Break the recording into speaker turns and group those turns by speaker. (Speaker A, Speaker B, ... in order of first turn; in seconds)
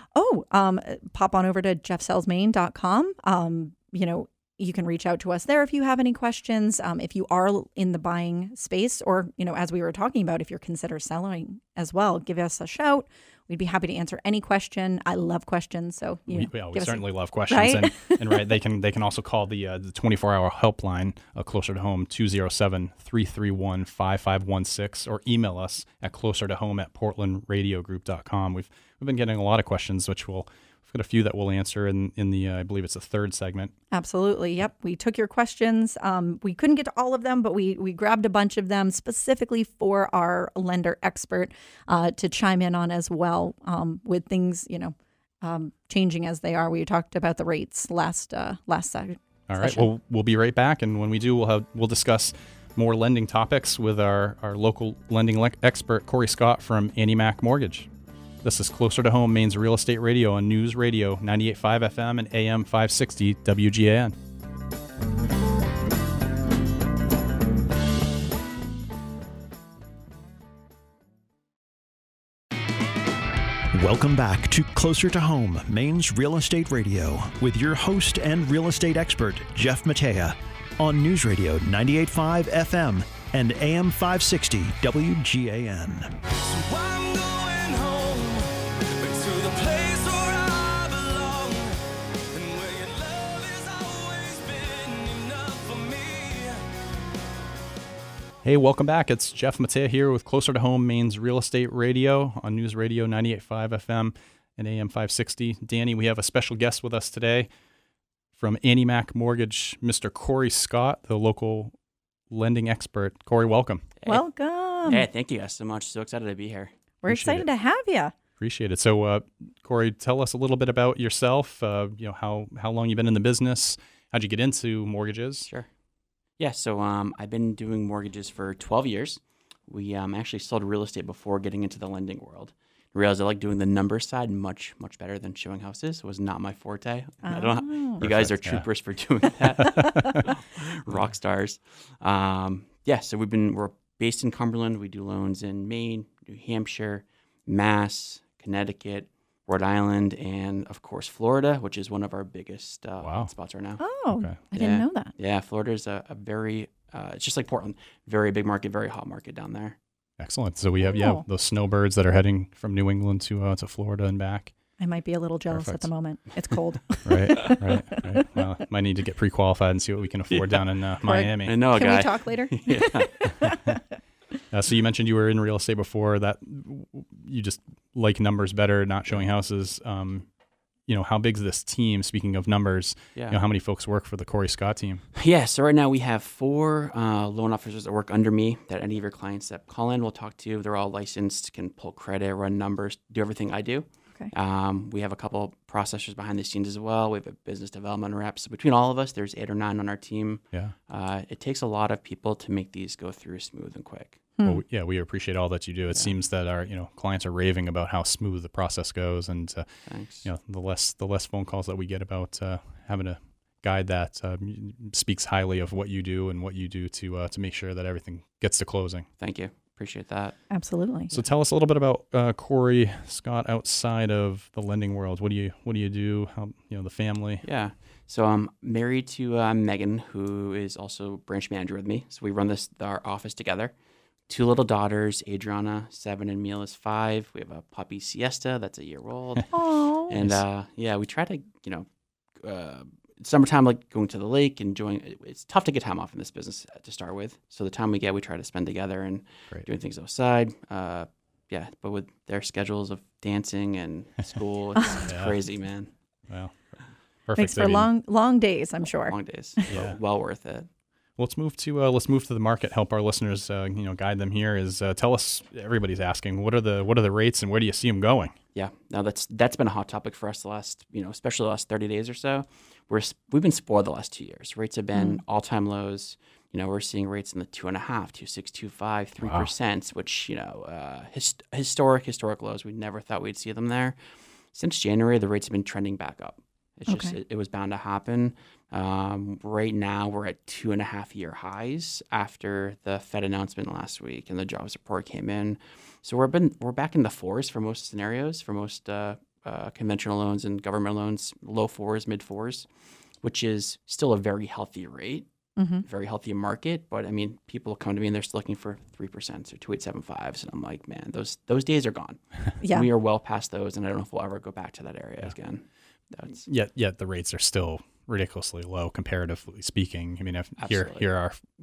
Speaker A: 0.1-18.4, 33.9-49.9, 114.1-115.1, 117.0-118.1, 137.2-138.0, 153.8-155.1, 160.8-161.2, 164.8-168.1, 171.0-173.8, 204.4-204.6, 220.5-221.2, 239.5-240.2, 257.4-259.7, 274.9-275.2, 286.9-287.1, 305.6-305.9, 312.6-312.9
Speaker B: 16.3-33.7, 49.5-57.9, 58.4-64.1, 98.4-107.5, 108.3-111.7, 112.3-113.9, 117.1-117.5, 118.4-125.5, 138.0-138.7, 139.5-140.2, 153.0-153.3, 154.1-154.4, 160.2-164.5, 165.5-165.9, 167.0-171.6, 173.4-173.8, 174.5-180.3, 180.9-185.0, 204.4-209.7, 210.2-219.1, 221.1-227.4, 240.1-240.4, 255.1-255.4, 256.3-257.9, 259.7-260.0, 261.2-268.4, 279.2-279.5, 316.4-321.4
Speaker C: 73.7-86.2
Speaker D: 86.3-96.6
Speaker E: 114.8-116.7, 126.4-153.8, 154.5-159.8, 170.3-170.6, 171.4-173.3, 185.1-204.2, 209.9-210.3, 219.2-220.4, 227.4-233.8, 234.3-241.9, 242.4-255.9, 259.0-260.7, 268.5-284.0, 284.5-302.7, 303.2-305.3, 305.9-316.4, 320.6-321.0